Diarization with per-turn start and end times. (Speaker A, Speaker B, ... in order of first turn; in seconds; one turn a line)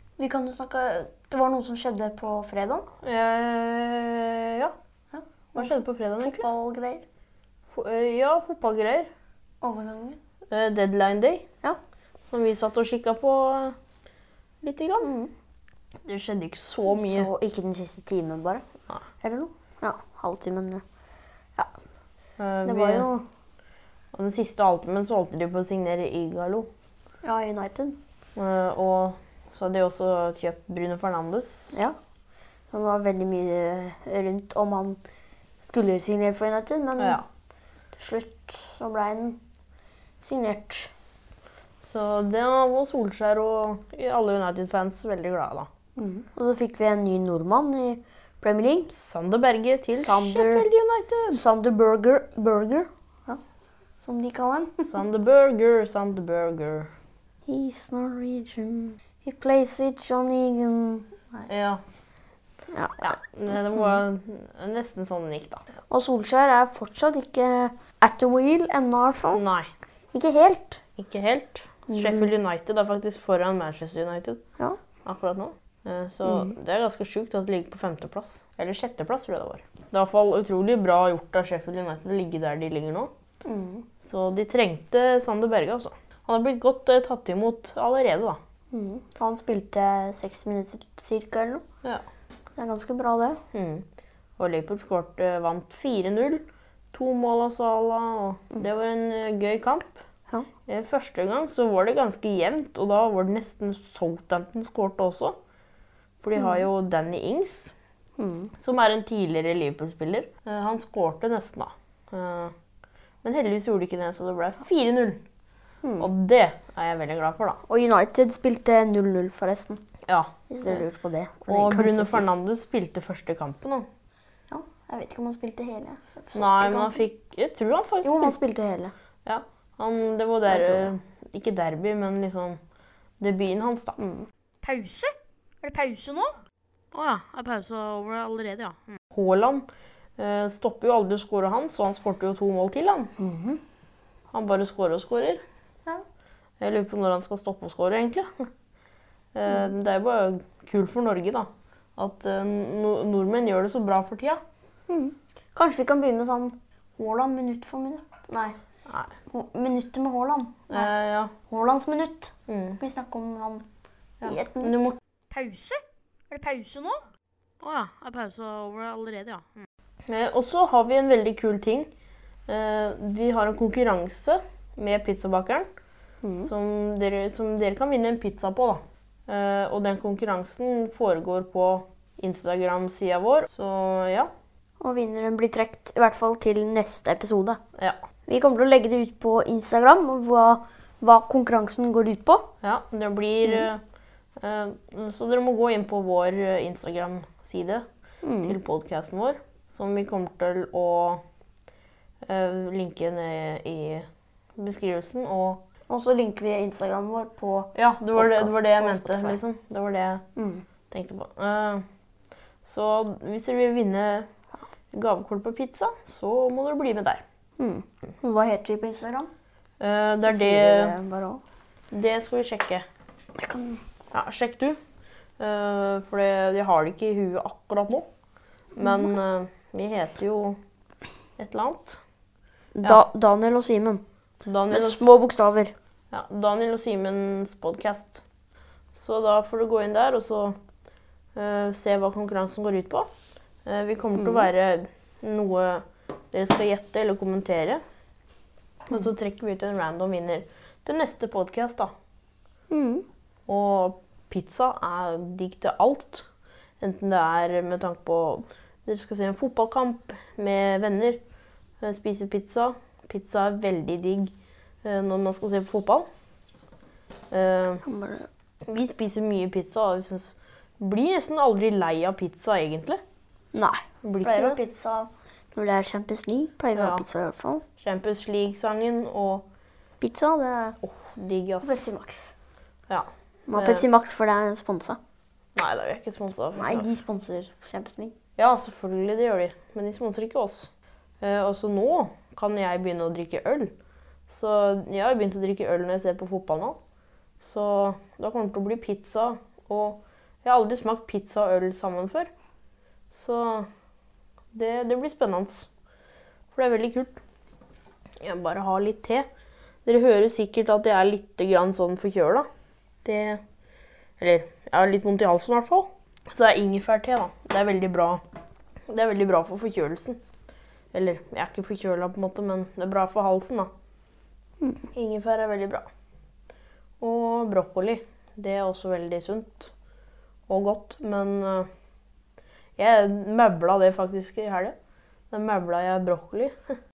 Speaker A: 0.2-2.9
Speaker B: 3.0-4.7
Speaker A: 5.1-7.0
Speaker B: 5.5-6.5
Speaker B: 7.7-9.1
Speaker A: 9.6-10.2
Speaker B: 10.5-11.4
Speaker B: 12.3-13.8
Speaker B: 14.6-15.1
Speaker A: 15.0-15.3
Speaker B: 16.0-17.3
Speaker A: 16.9-18.6
Speaker A: 19.2-20.8
Speaker B: 22.4-23.1
Speaker A: 22.6-23.2
Speaker B: 24.1-26.7
Speaker A: 27.2-28.0
Speaker B: 28.4-31.7
Speaker A: 32.7-35.0
Speaker A: 35.6-37.2
Speaker B: 37.0-37.2
Speaker A: 38.0-39.4
Speaker A: 40.2-40.9
Speaker B: 41.8-45.7
Speaker A: 46.0-48.9
Speaker B: 48.9-51.4
Speaker A: 50.0-50.6
Speaker A: 51.3-53.4
Speaker A: 54.0-54.9
Speaker B: 54.9-56.9
Speaker A: 57.5-61.5
Speaker B: 61.5-61.8
Speaker A: 62.7-63.2
Speaker B: 63.0-65.6
Speaker A: 65.9-69.4
Speaker B: 69.3-69.7
Speaker A: 70.1-70.8
Speaker B: 71.0-74.4
Speaker A: 71.9-72.3
Speaker B: 75.0-83.1
Speaker A: 76.2-76.5
Speaker A: 83.4-83.9
Speaker B: 84.0-88.4
Speaker A: 88.7-91.6
Speaker A: 92.5-93.4
Speaker B: 93.5-93.8
Speaker B: 94.4-100.0
Speaker B: 100.7-105.4
Speaker B: 106.2-107.7
Speaker A: 106.4-106.7
Speaker A: 108.2-108.5
Speaker B: 108.6-112.5
Speaker B: 113.2-115.2
Speaker A: 115.8-116.1
Speaker B: 116.0-117.6
Speaker A: 117.7-119.8
Speaker B: 120.1-120.8
Speaker A: 120.5-122.2
Speaker B: 121.5-123.9
Speaker A: 124.5-127.0
Speaker B: 126.3-128.4
Speaker A: 128.0-128.9
Speaker B: 129.2-132.6
Speaker A: 130.5-130.9
Speaker B: 133.2-134.0
Speaker A: 134.0-134.3
Speaker C: 134.6-136.4
Speaker B: 136.9-139.7
Speaker B: 140.2-143.1
Speaker A: 143.2-143.6
Speaker B: 144.3-145.4
Speaker B: 146.6-148.5
Speaker B: 149.3-154.4
Speaker A: 154.9-158.6
Speaker B: 158.9-159.1
Speaker A: 159.3-160.9
Speaker B: 160.7-161.3
Speaker A: 161.5-163.7
Speaker B: 162.5-162.8
Speaker B: 164.2-164.9
Speaker A: 164.2-164.9
Speaker C: 165.3-167.0
Speaker B: 167.6-171.9
Speaker B: 172.5-175.7
Speaker A: 176.2-176.5
Speaker B: 176.4-184.3
Speaker A: 184.8-187.6
Speaker A: 188.3-192.5
Speaker B: 192.6-193.8
Speaker B: 194.4-197.8
Speaker A: 198.2-198.6
Speaker B: 198.4-201.2
Speaker B: 202.2-205.6
Speaker A: 205.9-209.4
Speaker B: 207.7-210.2
Speaker A: 210.3-210.6
Speaker B: 210.9-211.8
Speaker B: 212.6-214.3
Speaker B: 214.9-217.2
Speaker A: 217.6-219.3
Speaker B: 219.8-220.9
Speaker A: 220.2-221.4
Speaker B: 221.9-222.8
Speaker A: 223.3-223.8
Speaker B: 224.1-224.8
Speaker B: 225.4-228.1
Speaker A: 228.8-229.1
Speaker B: 228.8-230.6
Speaker B: 231.4-232.0
Speaker A: 232.8-234.0
Speaker B: 234.4-235.1
Speaker A: 234.7-235.7
Speaker B: 236.1-238.2
Speaker B: 238.9-240.6
Speaker B: 241.3-243.1
Speaker B: 243.6-247.8
Speaker A: 244.2-244.5
Speaker B: 248.9-251.9
Speaker A: 252.7-253.0
Speaker B: 253.5-256.3
Speaker B: 256.8-261.2
Speaker B: 261.8-266.1
Speaker B: 267.3-267.8
Speaker A: 267.8-268.3
Speaker B: 268.6-273.0
Speaker A: 273.5-277.6
Speaker B: 274.0-274.6
Speaker B: 276.7-277.0
Speaker B: 277.8-279.4
Speaker A: 280.0-280.8
Speaker B: 280.8-281.8
Speaker A: 281.6-282.3
Speaker B: 282.9-283.8
Speaker A: 283.5-285.0
Speaker B: 285.5-286.9
Speaker A: 286.5-288.1
Speaker B: 288.4-293.7
Speaker B: 294.3-296.8
Speaker B: 297.4-302.3
Speaker B: 303.1-303.7
Speaker B: 304.5-305.7
Speaker B: 306.5-307.2
Speaker B: 308.2-309.3
Speaker B: 309.8-312.5
Speaker B: 313.0-313.4
Speaker B: 314.2-318.2
Speaker B: 318.9-320.2
Speaker B: 320.9-323.7
Speaker B: 324.9-325.9
Speaker B: 327.0-329.7
Speaker B: 330.5-331.7
Speaker B: 332.8-334.8
Speaker B: 335.3-336.8